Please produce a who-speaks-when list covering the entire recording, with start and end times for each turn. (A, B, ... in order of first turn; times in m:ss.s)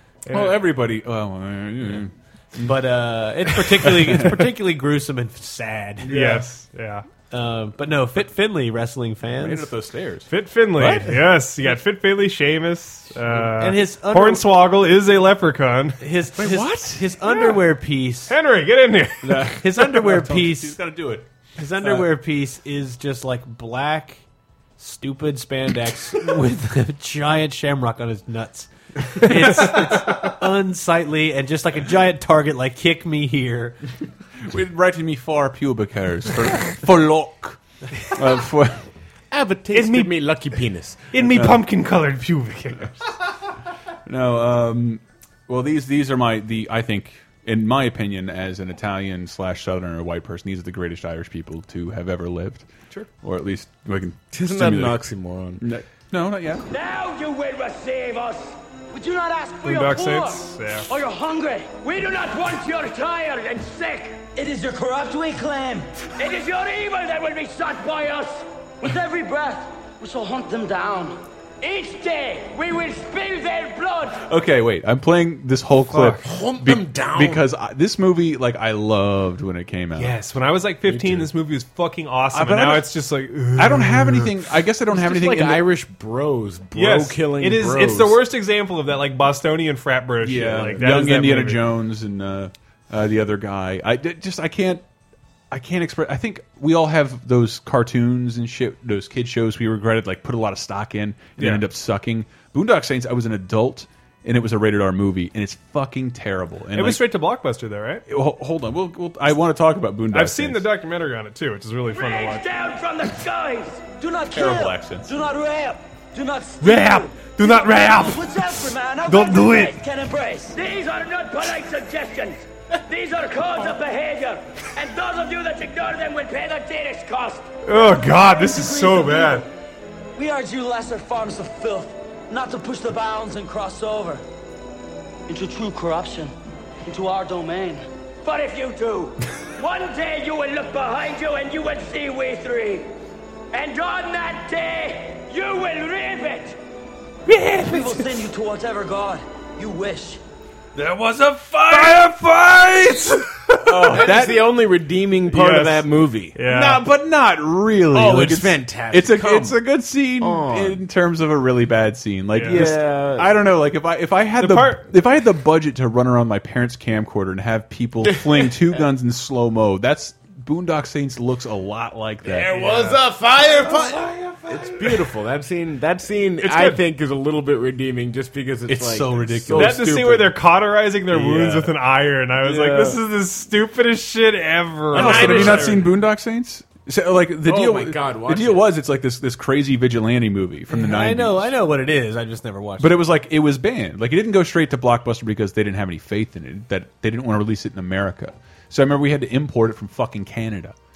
0:00.2-0:00.6 A
0:00.3-0:02.7 B
0:02.6-0:06.2 C
0:03.8-0:04.4 B
0:06.0-0:06.4 B
0:06.1-0:07.1 A
0:07.3-0:09.7 C
0:09.4-0:11.1 B
0:10.3-0:16.0 A
0:13.4-0:14.5 C
0:16.0-0:18.4 C
0:16.4-0:17.2 B
0:18.3-0:19.6 A
0:19.2-0:21.3 B
0:19.6-0:20.8 C
0:21.6-0:24.2 C
0:21.8-0:22.1 B
0:24.8-0:33.8 C
0:34.4-0:38.9 B
0:39.3-0:41.1 D
0:39.7-0:40.2 A
0:41.1-0:43.2 A
0:41.3-0:41.6 B
0:44.1-0:52.7 B
0:53.2-0:55.0 B
0:54.3-0:55.6 D
0:55.6-0:56.7 B
0:56.7-1:14.2 E
0:59.6-1:00.9 A
1:14.2-1:20.2 B
1:15.8-1:16.2 A
1:16.2-1:17.4 D
1:20.0-1:24.5 A
1:20.8-1:21.3 D
1:22.3-1:22.9 B
1:23.6-1:25.7 B
1:24.9-1:28.2 D
1:26.7-1:31.7 A
1:30.2-1:34.8 B
1:35.5-1:47.0 B
1:41.4-1:41.7 A
1:46.7-1:48.0 A
1:48.1-1:50.7 B
1:50.1-1:52.5 A
1:51.9-2:09.4 E
1:54.3-1:55.1 B
1:56.6-1:58.3 A
1:59.0-1:59.8 A
2:07.6-2:09.5 A
2:10.2-2:14.2 E
2:15.3-2:16.3 E
2:16.8-2:22.9 E
2:23.5-2:26.6 E
2:27.3-2:28.0 B
2:27.6-2:30.2 E
2:30.8-2:33.0 B
2:31.6-2:34.2 A
2:33.6-2:34.5 B
2:33.8-2:36.4 D
2:35.2-2:36.9 A
2:36.4-2:54.9 B
2:37.9-2:39.6 D
2:40.2-2:40.8 D
2:42.3-2:42.9 A
2:42.5-2:43.3 D
2:44.4-2:44.9 A
2:52.2-3:00.4 D
2:56.5-2:56.8 B
2:58.7-2:59.8 B
2:59.5-3:06.0 A
3:01.1-3:01.7 D
3:02.4-3:03.0 D
3:04.9-3:11.6 B
3:04.9-3:05.8 D
3:07.4-3:08.7 D
3:10.7-3:13.0 C
3:12.8-3:20.8 B